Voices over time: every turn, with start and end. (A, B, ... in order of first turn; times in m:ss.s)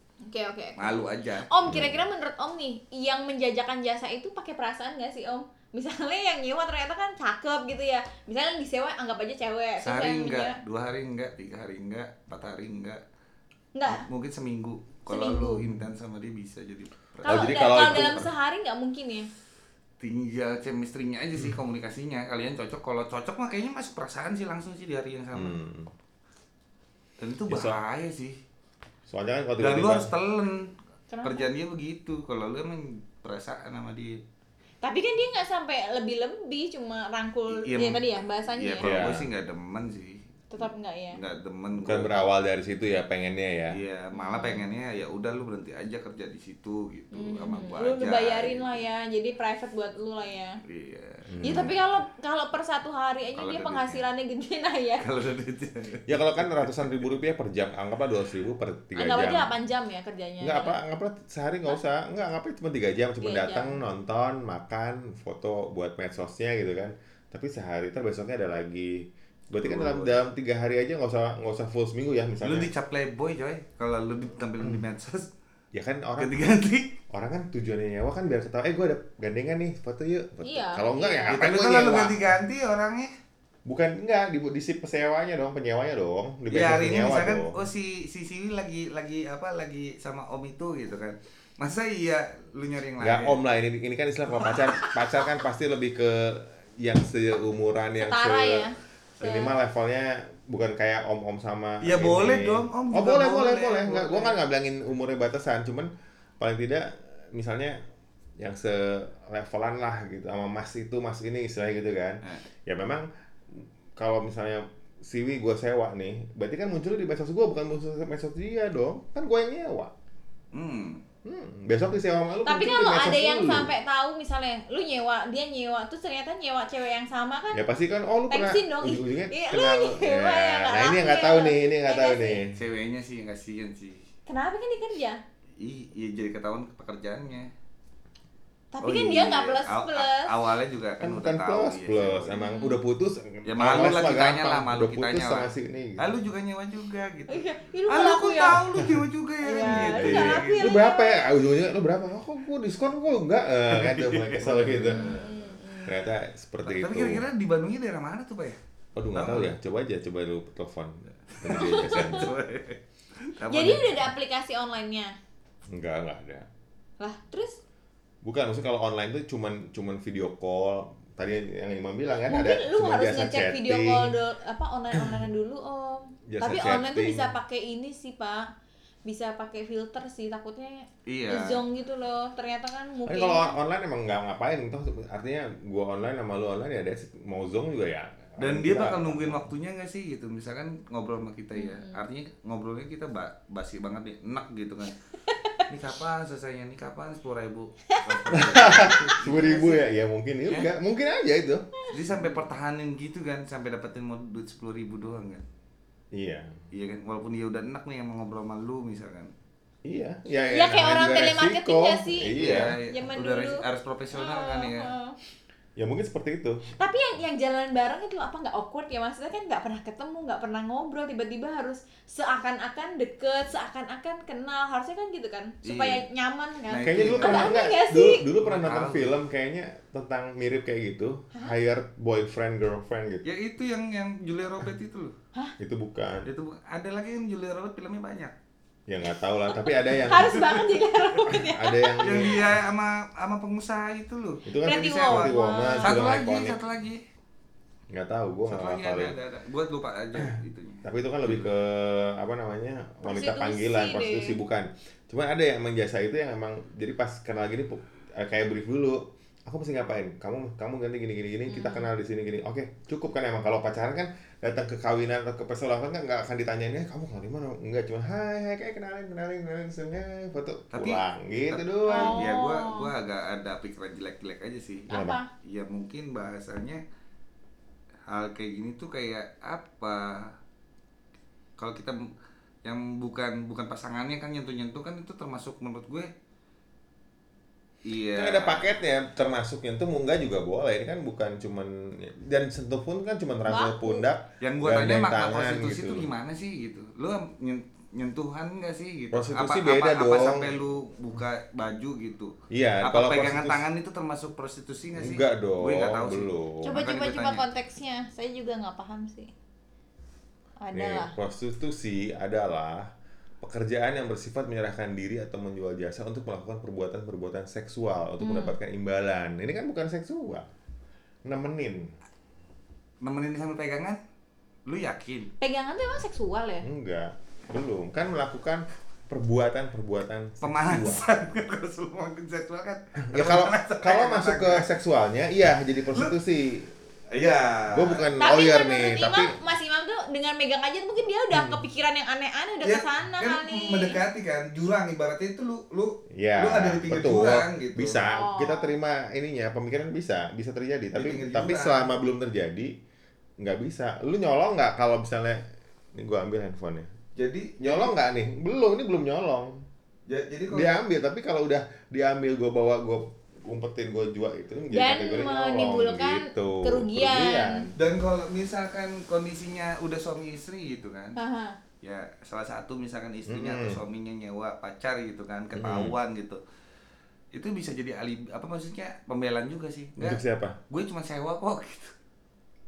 0:00.2-0:10.5 A
0:00.8-0:01.5 B
0:01.6-0:02.0 C
0:09.8-0:13.0 B
0:13.8-0:14.0 A
0:13.8-0:18.3 B
0:15.1-0:15.7 A
0:17.2-0:19.3 A
0:17.2-0:18.3 C
0:20.0-0:25.6 B
0:25.3-0:25.9 C
0:27.2-0:28.4 B
0:27.5-0:27.8 C
0:29.1-0:30.1 C
0:29.6-0:30.7 B
0:31.1-0:31.5 A
0:31.2-0:34.2 B
0:34.8-0:39.1 A
0:37.5-0:38.0 B
0:38.6-0:42.1 B
0:38.8-0:39.2 C
0:40.5-0:41.2 A
0:41.8-0:43.8 C
0:43.7-0:48.8 B
0:44.1-0:44.6 A
0:47.1-0:50.6 A
0:50.6-0:51.6 B
0:51.3-0:51.8 C
0:51.4-0:55.0 A
0:53.4-0:54.0 B
0:55.0-0:56.9 B
0:56.1-0:59.5 C
0:58.9-1:00.8 A
1:00.4-1:12.7 C
1:03.2-1:03.8 A
1:09.6-1:10.2 B
1:12.4-1:15.3 B
1:15.7-1:16.4 C
1:16.2-1:16.9 B
1:17.1-1:22.2 C
1:20.4-1:21.4 A
1:21.3-1:23.1 B
1:23.6-1:27.6 C
1:26.5-1:33.4 B
1:33.0-1:38.7 C
1:34.4-1:34.6 B
1:38.0-1:39.6 A
1:39.2-1:45.9 C
1:41.8-1:44.3 B
1:46.4-1:47.8 C
1:48.4-1:59.9 C
2:00.5-2:01.0 B
2:01.2-2:03.7 C
2:02.4-2:07.6 A
2:07.5-2:12.6 C
2:08.3-2:12.4 A
2:12.5-2:14.1 B
2:14.3-2:15.2 A
2:15.6-2:17.5 B
2:18.7-2:20.4 A
2:18.8-2:22.4 B
2:21.0-2:26.2 C
2:22.3-2:22.8 A
2:23.4-2:30.8 B
2:27.3-2:28.6 A
2:28.8-2:29.0 C
2:29.4-2:31.3 A
2:29.6-2:35.1 C
2:33.7-2:35.3 B
2:34.9-2:36.0 A
2:35.8-2:37.2 C
2:36.6-2:38.6 B
2:39.0-2:42.3 C
2:39.1-2:39.5 B
2:41.3-2:44.1 B
2:41.5-2:42.3 A
2:43.5-2:45.1 A
2:45.7-2:46.5 C
2:47.0-2:47.6 A
2:48.2-2:54.1 C
2:52.3-2:58.5 A
2:56.3-2:57.3 C
2:59.0-3:03.6 A
3:01.0-3:01.6 B
3:03.0-3:09.5 C
3:08.4-3:15.0 B
3:11.5-3:12.0 A
3:15.3-3:15.6 A
3:15.7-3:19.8 B
3:17.9-3:18.2 A
3:18.3-3:21.7 C
3:21.9-3:25.4 B
3:26.1-3:26.6 C
3:26.7-3:29.3 B
3:29.8-3:32.7 C
3:30.5-3:35.2 A
3:32.3-3:34.9 B
3:35.8-3:36.7 C
3:36.7-3:48.2 A
3:45.6-3:46.0 B
3:46.7-3:47.5 B
3:46.8-3:53.2 C
3:48.4-3:49.2 B
3:53.2-3:55.1 B
3:55.6-3:56.3 C
3:56.2-3:58.3 B
3:58.9-4:00.5 C
3:59.7-4:02.4 A
3:59.9-4:01.2 B
4:01.2-4:02.5 C
4:02.0-4:07.0 B
4:04.4-4:06.6 C
4:04.6-4:06.0 A
4:07.9-4:09.1 C
4:08.5-4:11.5 B
4:10.2-4:32.3 C
4:13.0-4:14.4 A
4:21.5-4:21.9 A
4:30.7-4:34.9 B
4:31.9-4:32.9 A
4:34.9-4:35.3 A
4:34.9-4:35.2 C
4:35.4-4:36.8 B
4:38.1-4:40.4 B
4:41.6-4:42.1 B
4:42.6-4:46.1 B
4:47.8-4:48.8 B
4:48.1-4:56.1 C
4:53.5-4:54.0 A
4:54.4-5:07.4 B
4:59.1-5:00.5 C
5:02.5-5:03.6 C
5:05.0-5:06.8 C
5:06.6-5:09.3 A
5:10.6-5:11.1 A
5:10.7-5:12.9 C
5:13.4-5:20.5 C
5:18.2-5:18.5 A
5:21.2-5:21.9 C
5:23.0-5:24.0 B
5:24.7-5:25.3 B
5:25.4-5:26.7 A
5:26.6-5:31.0 C
5:30.4-5:34.6 B
5:33.0-5:36.7 C
5:37.1-5:38.3 B
5:37.7-5:39.4 C
5:38.2-5:44.0 A
5:41.3-5:41.6 C
5:42.6-5:48.0 B
5:46.1-5:52.7 C
5:48.1-5:48.7 A
5:50.9-5:51.9 B
5:53.4-5:55.4 C
5:55.9-5:56.9 C
5:57.1-5:57.9 B
5:57.6-5:59.6 C
6:00.1-6:00.8 B
6:00.5-6:07.8 C
6:04.7-6:07.7 A
6:07.8-6:11.2 B
6:11.2-6:11.6 A
6:11.8-6:16.4 B
6:13.3-6:13.8 C
6:15.5-6:15.9 C
6:17.3-6:21.9 B
6:20.0-6:20.6 C